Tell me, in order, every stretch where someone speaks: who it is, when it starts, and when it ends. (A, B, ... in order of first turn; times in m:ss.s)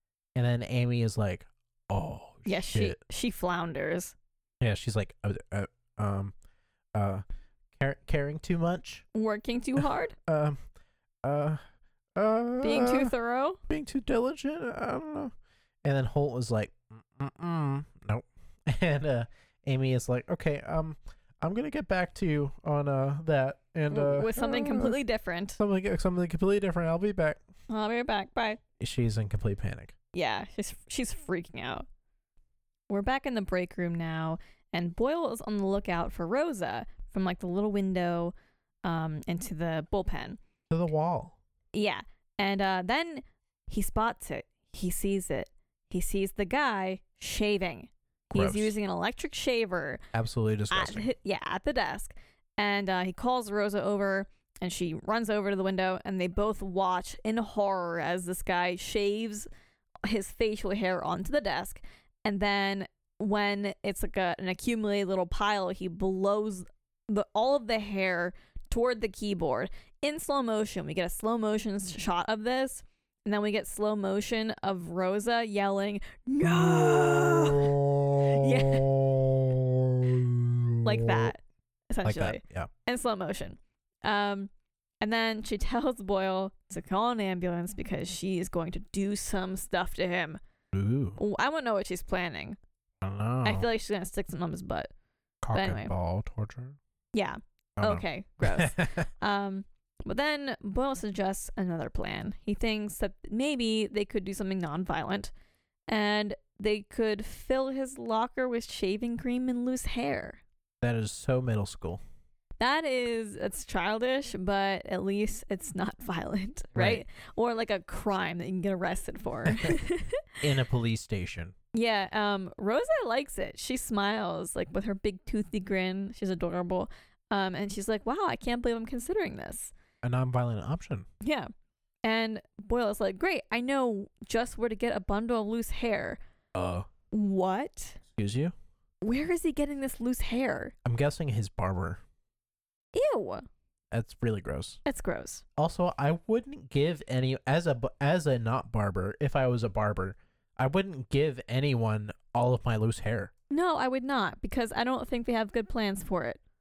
0:00.4-0:03.0 A
0:02.5-0:04.2 B
0:04.6-0:06.3 A
0:07.0-0:07.2 A
0:07.8-0:09.0 A
0:09.1-0:10.2 B
0:09.8-0:10.6 A
0:11.2-0:11.6 A
0:12.2-0:13.1 A
0:12.6-0:13.6 B
0:13.7-0:15.3 A
0:15.8-0:25.0 A
0:23.9-0:25.6 B
0:25.6-0:27.4 A
0:27.7-0:28.6 B
0:28.8-0:29.9 A
0:30.1-0:31.9 B
0:32.9-0:38.3 B
0:38.8-0:40.4 B
0:40.7-0:41.4 A
0:41.7-0:50.0 B
0:48.3-0:48.8 A
0:50.1-0:51.1 A
0:50.7-0:59.5 B
1:00.0-1:18.9 B
1:16.6-1:21.3 A
1:20.8-1:21.4 B
1:21.9-1:24.5 B
1:22.0-1:22.7 A
1:25.0-1:30.4 B
1:30.7-1:31.2 A
1:31.2-1:32.6 B
1:33.0-1:33.7 A
1:33.4-1:34.9 B
1:35.4-1:36.8 A
1:35.5-1:35.9 B
1:37.1-1:45.3 B
1:37.8-1:39.0 A
1:45.9-1:50.4 B
1:50.8-1:52.0 A
1:52.6-2:00.3 B
1:56.8-1:57.0 A
1:59.5-1:59.8 A
2:00.4-2:01.5 A
2:01.7-2:09.7 B
2:10.0-2:11.1 A
2:11.2-2:11.5 B
2:12.0-2:16.2 B
2:16.5-2:16.9 A
2:17.1-2:18.0 B
2:18.1-2:18.5 A
2:19.0-2:20.7 B
2:20.8-2:22.0 A
2:22.9-2:23.4 B
2:23.9-2:24.8 A
2:24.8-2:25.4 B
2:25.6-2:33.3 A
2:33.5-2:36.4 B